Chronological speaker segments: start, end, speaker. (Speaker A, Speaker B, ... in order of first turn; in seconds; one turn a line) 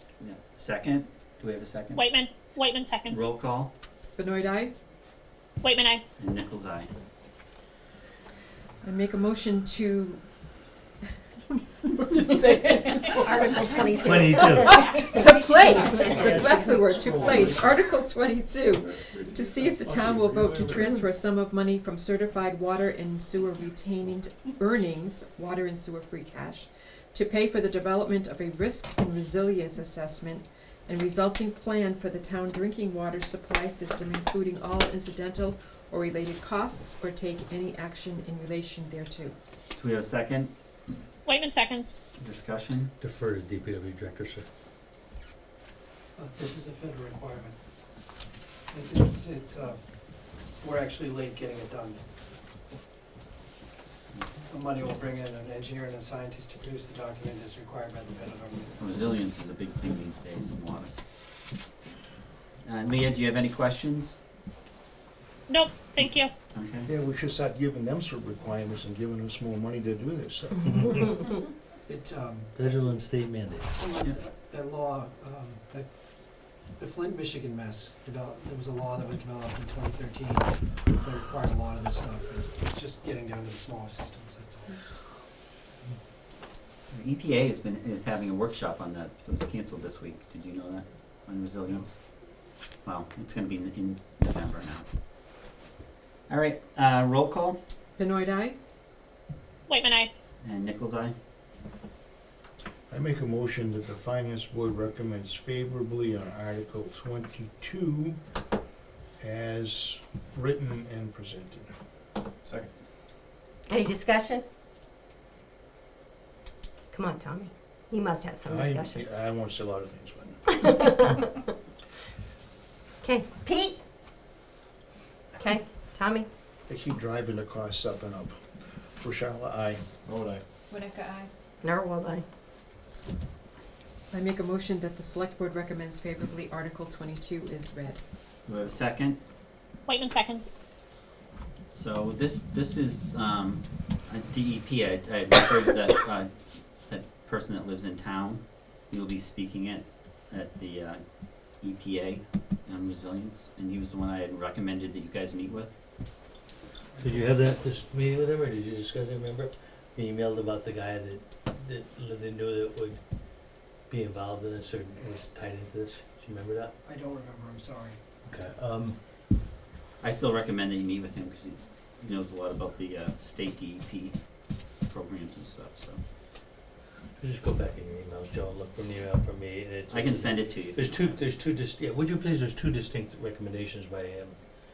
Speaker A: 0.2-2.1
Speaker B: 1.9-3.3
Speaker A: 3.1-3.7
Speaker C: 4.2-4.7
Speaker B: 5.6-6.0
Speaker A: 6.2-6.9
Speaker C: 8.8-10.2
Speaker C: 11.8-13.6
Speaker D: 13.2-14.9
Speaker E: 14.0-14.8
Speaker C: 14.6-39.4
Speaker E: 16.1-17.6
Speaker E: 19.4-20.9
Speaker A: 39.8-40.5
Speaker B: 41.3-41.9
Speaker A: 42.2-42.9
Speaker E: 43.0-44.5
Speaker F: 46.2-47.5
Speaker F: 48.7-52.0
Speaker A: 54.1-54.4
Speaker F: 54.5-58.7
Speaker A: 58.8-61.0
Speaker A: 62.6-64.2
Speaker B: 65.5-66.3
Speaker A: 66.5-66.9
Speaker G: 66.9-71.2
Speaker E: 70.7-71.2
Speaker F: 71.9-72.9
Speaker E: 72.6-73.8
Speaker F: 73.7-84.8
Speaker A: 86.9-92.2
Speaker A: 92.8-94.9
Speaker A: 96.3-97.6
Speaker C: 98.0-98.6
Speaker B: 99.7-100.1
Speaker A: 100.4-101.1
Speaker G: 102.9-108.2
Speaker G: 109.2-111.7
Speaker D: 113.7-114.4
Speaker D: 116.9-119.0
Speaker G: 118.5-121.0
Speaker D: 123.0-123.8
Speaker D: 125.4-126.3
Speaker G: 126.7-130.4
Speaker C: 130.7-131.3
Speaker D: 131.6-132.2
Speaker C: 134.1-138.0
Speaker A: 138.5-139.2
Speaker B: 139.9-140.5
Speaker A: 141.7-146.3
Speaker A: 146.8-155.8
Speaker F: 156.9-157.5
Speaker E: 157.0-163.0
Speaker E: 163.9-166.7
Speaker F: 166.8-168.0
Speaker E: 168.2-169.0
Speaker A: 170.0-176.0
Speaker E: 177.2-184.4
Speaker A: 179.9-181.2